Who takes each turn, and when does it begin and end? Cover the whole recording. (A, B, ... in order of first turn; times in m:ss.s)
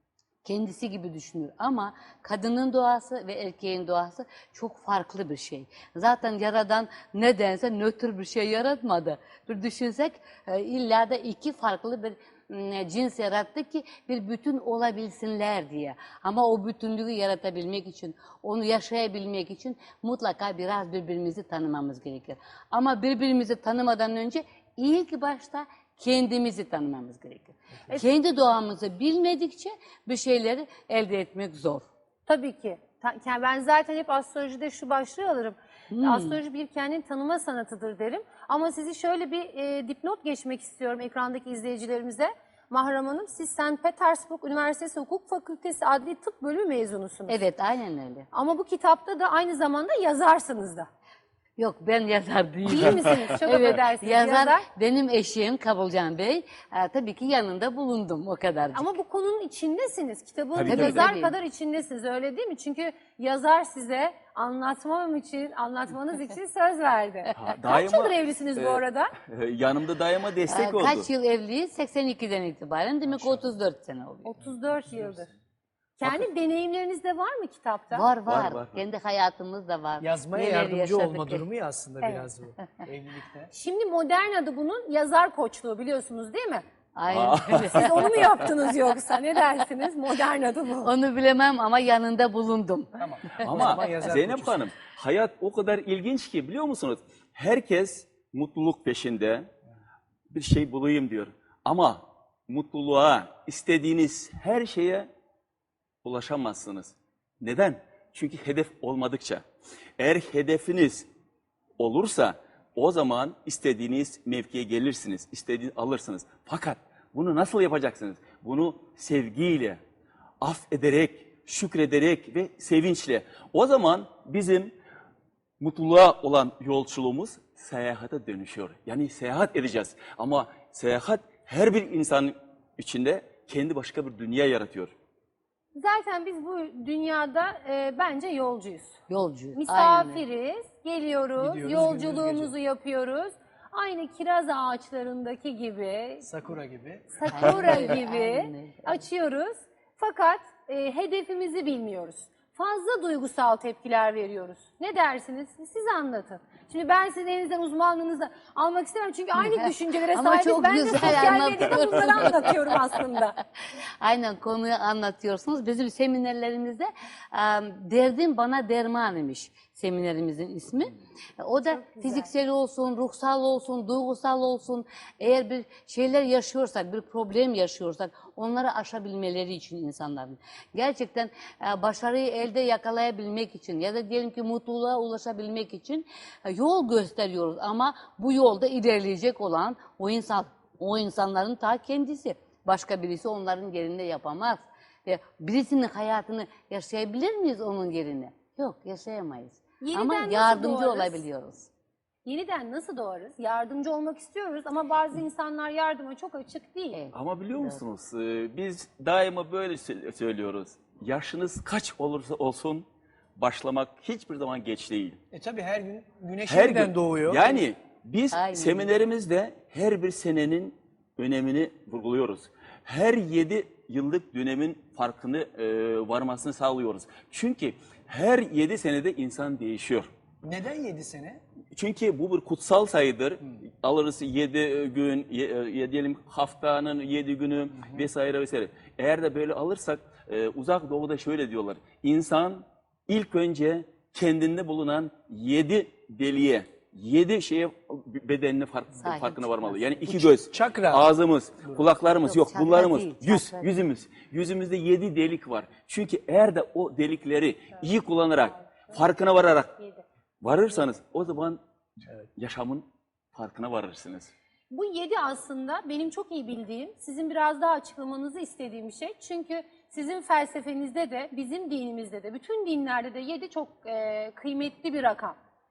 0:00.4-0:31.8 A
0:32.3-0:47.4 B
0:35.9-0:36.4 A
0:47.3-0:48.3 A
0:48.3-0:50.9 B
0:51.6-0:58.9 A
0:52.7-0:54.6 B
0:58.7-1:09.1 B
1:00.5-1:01.1 C
1:00.6-1:01.4 A
1:07.4-1:11.1 C
1:10.5-1:14.4 A
1:13.1-1:13.4 D
1:14.2-1:15.3 B
1:16.0-1:18.1 B
1:16.0-1:16.3 C
1:17.9-1:21.4 A
1:18.3-1:18.8 C
1:20.0-1:23.5 D
1:23.5-1:26.6 B
1:27.0-1:28.1 A
1:27.1-1:28.1 C
1:27.6-1:30.9 B
1:30.8-1:33.8 A
1:33.0-1:34.7 D
1:33.4-1:39.5 C
1:40.3-1:45.1 C
1:46.0-1:49.4 C
1:50.0-1:51.1 C
1:51.8-1:59.8 C
2:00.4-2:04.7 C
2:05.6-2:14.9 C
2:15.8-2:18.9 B
2:19.1-2:20.2 A
2:19.5-2:26.3 B
2:21.4-2:22.5 D
2:26.2-2:27.8 D
2:27.1-2:43.4 B
2:27.3-2:29.0 A
2:39.4-2:43.0 A
2:44.0-3:21.7 A
2:51.6-2:52.3 B
3:19.8-3:21.2 B
3:22.2-3:27.0 B
3:26.9-3:27.8 A
3:27.1-3:32.9 C
3:33.4-3:35.2 C
3:35.3-3:37.6 D
3:36.5-3:50.1 C
3:38.3-3:38.9 A
3:50.4-3:51.4 D
3:51.7-4:19.7 C
3:57.8-3:58.1 D
4:09.0-4:10.1 A
4:10.0-4:11.1 D
4:12.2-4:13.8 A
4:18.4-4:19.0 B
4:19.8-4:20.0 B
4:20.4-4:21.6 C
4:22.4-4:24.3 C
4:24.7-4:35.4 B